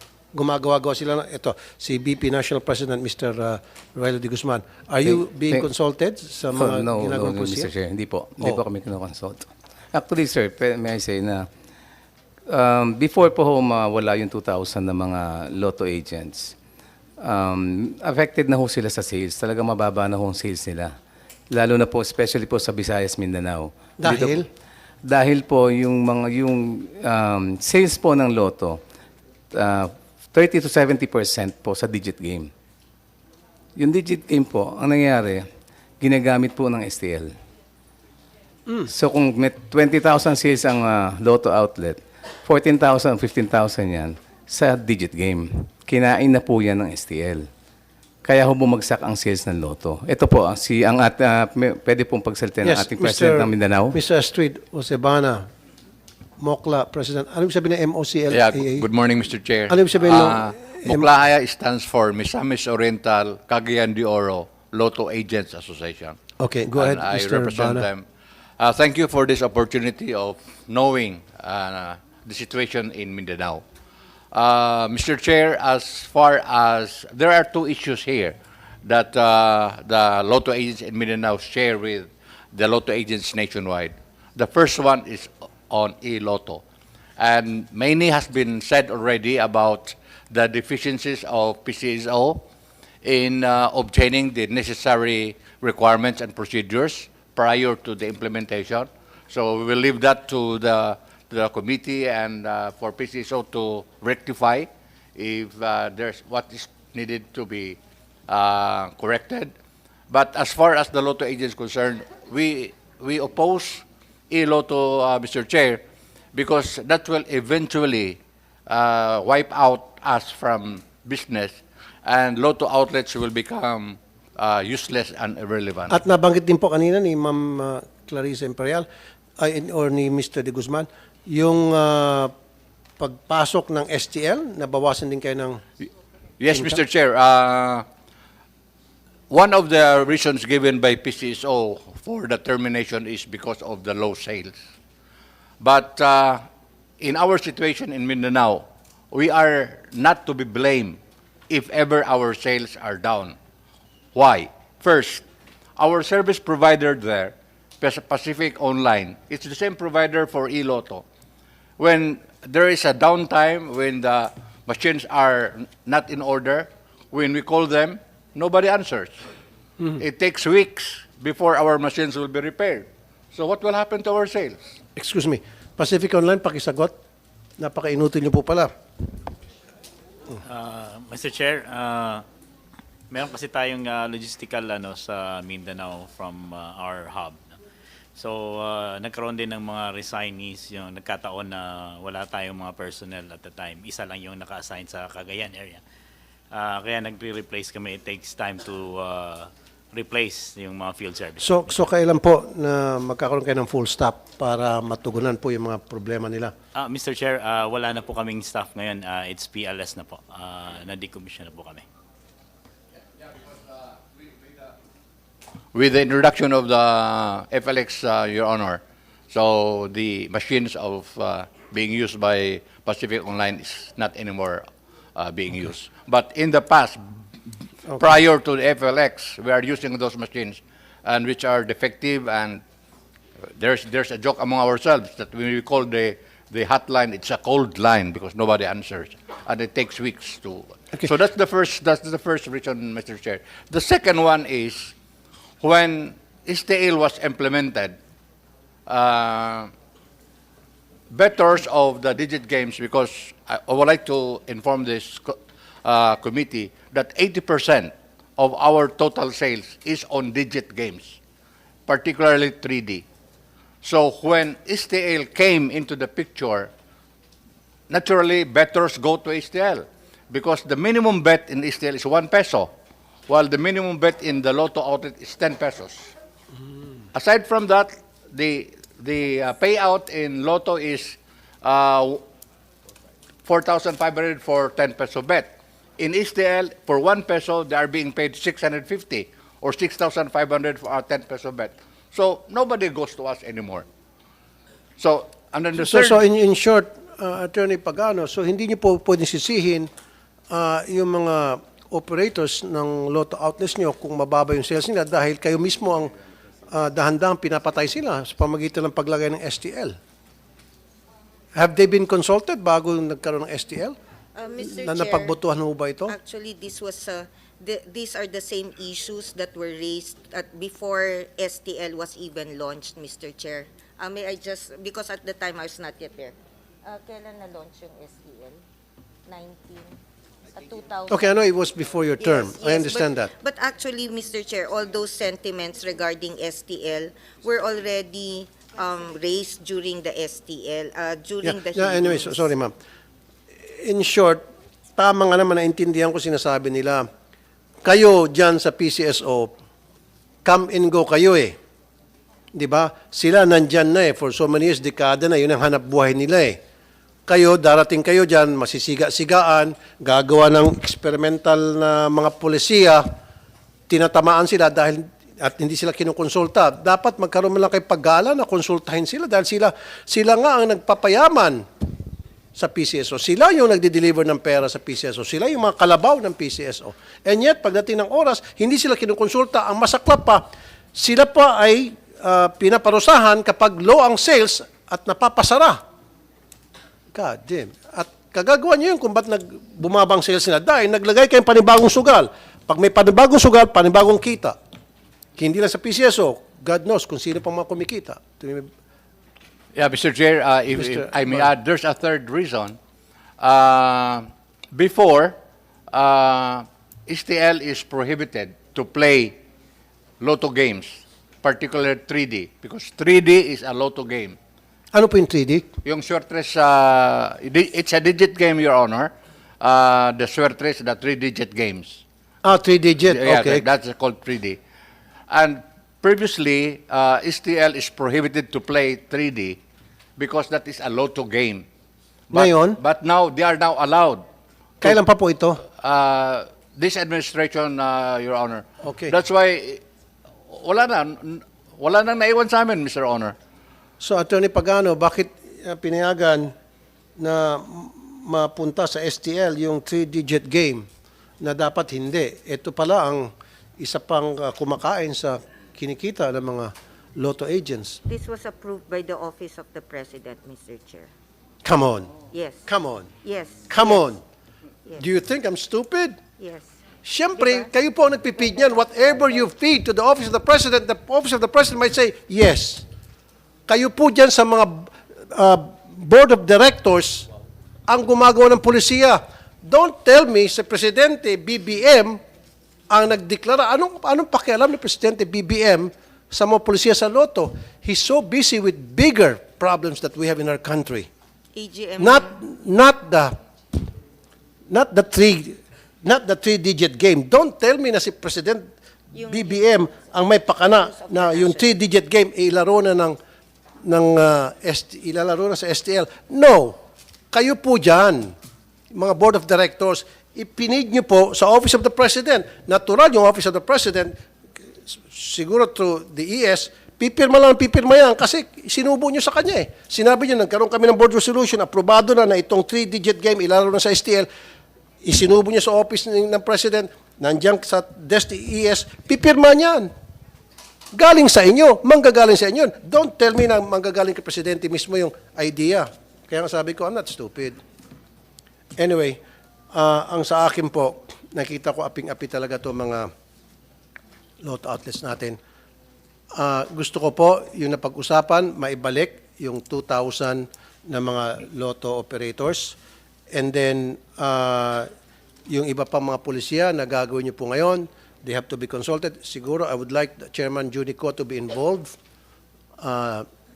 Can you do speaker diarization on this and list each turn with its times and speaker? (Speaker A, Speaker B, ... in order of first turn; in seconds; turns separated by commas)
Speaker A: 0.3-7.7, Speaker B: 5.0-5.6, Speaker B: 6.5-11.5, Speaker B: 12.5-16.5, Speaker B: 17.2-20.9, Speaker B: 21.5-24.4, Speaker A: 24.0-24.4, Speaker B: 25.0-28.8, Speaker B: 29.5-32.5, Speaker B: 33.8-35.4, Speaker B: 36.0-37.3, Speaker B: 38.9-47.5, Speaker B: 48.2-54.0, Speaker A: 52.6-55.5, Speaker A: 56.4-58.9, Speaker C: 58.3-66.2, Speaker A: 59.7-61.0, Speaker A: 66.4-67.8, Speaker C: 66.7-68.0, Speaker C: 68.6-73.6, Speaker C: 74.3-86.6, Speaker C: 87.2-92.4, Speaker C: 93.0-109.5, Speaker C: 110.1-115.8, Speaker C: 116.3-125.9, Speaker A: 125.9-128.8, Speaker A: 129.4-132.3, Speaker A: 133.0-135.6, Speaker C: 136.4-137.8, Speaker A: 136.5-136.8, Speaker C: 139.3-144.6, Speaker C: 145.6-146.4, Speaker C: 147.0-153.3, Speaker C: 154.1-155.2, Speaker C: 155.8-161.0, Speaker C: 161.8-169.1, Speaker C: 170.0-174.6, Speaker A: 174.9-176.9, Speaker A: 177.6-178.7, Speaker D: 180.4-182.2, Speaker D: 183.1-187.6, Speaker D: 188.1-195.8, Speaker D: 196.5-201.6, Speaker A: 201.4-206.5, Speaker D: 206.7-211.8, Speaker C: 215.7-227.0, Speaker A: 227.9-228.1, Speaker C: 228.0-232.6, Speaker C: 233.5-244.9, Speaker C: 245.6-247.9, Speaker C: 248.9-249.7, Speaker C: 251.1-261.2, Speaker C: 261.9-263.0, Speaker C: 263.8-266.7, Speaker C: 267.9-272.7, Speaker C: 273.3-276.1, Speaker C: 277.1-282.2, Speaker C: 283.4-293.9, Speaker C: 295.0-296.2, Speaker A: 295.8-299.9, Speaker A: 300.5-306.1, Speaker A: 306.7-309.9, Speaker A: 311.6-313.9, Speaker E: 314.3-315.4, Speaker A: 314.6-316.1, Speaker E: 316.1-328.6, Speaker E: 329.3-329.9, Speaker E: 330.5-331.3, Speaker A: 331.1-333.3, Speaker E: 332.2-342.4, Speaker A: 341.4-342.7, Speaker A: 343.8-344.4, Speaker A: 345.0-347.0, Speaker A: 347.8-349.5, Speaker A: 350.4-351.6, Speaker A: 352.5-356.6, Speaker A: 357.3-363.1, Speaker A: 363.9-371.6, Speaker A: 372.6-385.8, Speaker A: 387.1-394.6, Speaker A: 395.4-398.7, Speaker C: 399.7-402.8, Speaker A: 400.7-401.5, Speaker C: 403.4-405.4, Speaker C: 405.9-409.4, Speaker C: 410.2-414.4, Speaker A: 414.9-415.7, Speaker C: 415.8-422.0, Speaker A: 422.4-423.6, Speaker C: 423.1-424.6, Speaker C: 425.3-429.6, Speaker C: 430.2-431.6, Speaker C: 432.3-434.2, Speaker A: 432.3-432.8, Speaker A: 434.8-435.6, Speaker C: 435.8-439.8, Speaker A: 438.8-439.1, Speaker C: 440.5-443.3, Speaker A: 444.0-446.5, Speaker A: 447.2-450.9, Speaker A: 451.4-458.0, Speaker E: 458.1-461.1, Speaker A: 461.6-462.1, Speaker E: 462.3-462.6, Speaker A: 462.6-463.1, Speaker E: 463.2-464.0, Speaker A: 463.7-464.2, Speaker A: 465.0-466.2, Speaker E: 466.4-466.7, Speaker A: 467.0-472.9, Speaker E: 467.4-467.7, Speaker A: 473.7-477.3, Speaker A: 477.9-482.2, Speaker A: 482.9-491.1, Speaker E: 491.5-492.4, Speaker A: 492.0-493.4, Speaker A: 494.7-498.7, Speaker E: 499.1-501.7, Speaker A: 499.3-503.2, Speaker A: 503.8-506.8, Speaker A: 507.3-508.3, Speaker A: 508.9-514.1, Speaker A: 514.9-524.3, Speaker A: 525.0-529.9, Speaker A: 530.9-537.6, Speaker A: 538.8-539.2, Speaker A: 539.7-543.1, Speaker A: 544.4-545.4, Speaker A: 546.3-552.8, Speaker A: 553.3-554.9, Speaker A: 555.5-562.0, Speaker A: 562.8-563.2